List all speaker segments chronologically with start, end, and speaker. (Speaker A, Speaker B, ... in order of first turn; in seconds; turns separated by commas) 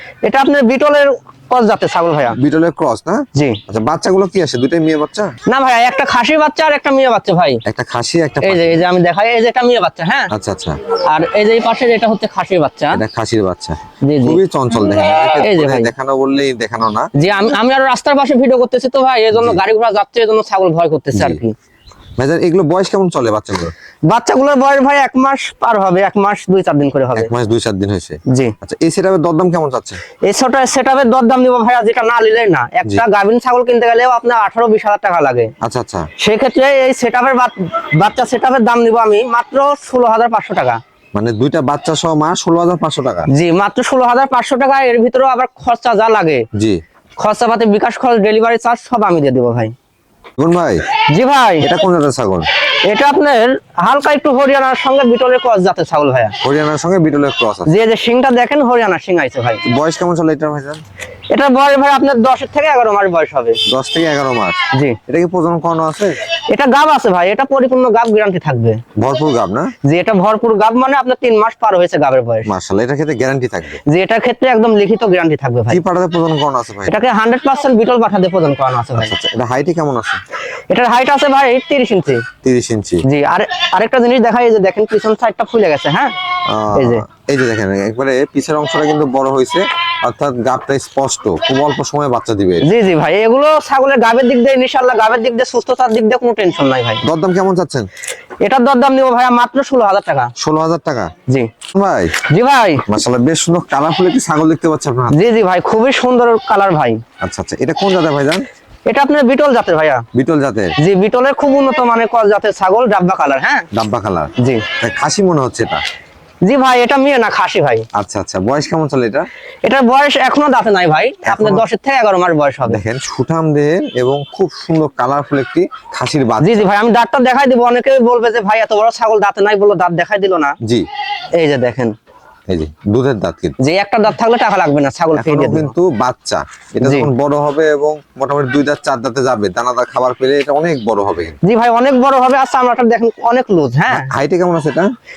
Speaker A: 0.2-2.4, Speaker B: 2.3-5.3, Speaker A: 3.4-3.6, Speaker A: 5.5-7.6, Speaker B: 7.7-8.8, Speaker A: 8.4-10.3, Speaker B: 10.3-10.8, Speaker A: 11.1-13.0, Speaker B: 12.9-17.1, Speaker A: 14.0-14.4, Speaker A: 15.4-15.9, Speaker A: 17.1-21.5, Speaker B: 19.3-19.6, Speaker B: 21.1-21.4, Speaker B: 22.2-23.7, Speaker A: 24.1-27.3, Speaker B: 27.1-30.0, Speaker A: 28.3-28.5, Speaker A: 30.2-35.5, Speaker B: 35.6-36.1, Speaker A: 36.2-40.8, Speaker B: 41.1-43.3, Speaker A: 43.3-46.5, Speaker B: 46.5-46.8, Speaker A: 47.2-49.7, Speaker B: 50.4-50.8, Speaker A: 51.1-51.7, Speaker B: 51.6-52.5, Speaker A: 52.9-56.4, Speaker B: 56.4-57.7, Speaker A: 57.7-59.6, Speaker B: 59.7-60.8, Speaker A: 61.3-63.6, Speaker B: 63.7-66.2, Speaker A: 64.7-65.0, Speaker A: 66.5-68.8, Speaker B: 69.0-69.7, Speaker A: 69.8-72.5, Speaker B: 72.5-73.8, Speaker A: 73.8-75.8, Speaker B: 75.7-77.0, Speaker A: 76.9-79.1, Speaker B: 79.0-80.2, Speaker A: 80.7-82.3, Speaker B: 82.4-83.0, Speaker A: 83.0-86.1, Speaker B: 86.5-92.7, Speaker A: 86.7-87.0, Speaker A: 92.6-97.0, Speaker B: 97.0-97.9, Speaker A: 98.4-100.3, Speaker B: 100.4-101.1, Speaker B: 101.7-102.1, Speaker A: 102.3-102.8, Speaker B: 102.9-105.1, Speaker A: 105.1-107.0, Speaker B: 107.2-108.4, Speaker A: 108.9-110.0, Speaker B: 110.1-110.7, Speaker A: 110.8-113.7, Speaker B: 113.7-115.8, Speaker A: 114.4-114.7, Speaker A: 116.5-117.8, Speaker B: 117.9-119.3, Speaker A: 119.6-122.8, Speaker B: 121.2-121.7, Speaker B: 122.7-126.6, Speaker A: 126.4-130.6, Speaker A: 131.4-131.9, Speaker B: 132.5-133.6, Speaker A: 133.6-135.7, Speaker B: 135.1-141.4, Speaker A: 136.8-137.1, Speaker A: 141.4-144.1, Speaker B: 143.9-144.9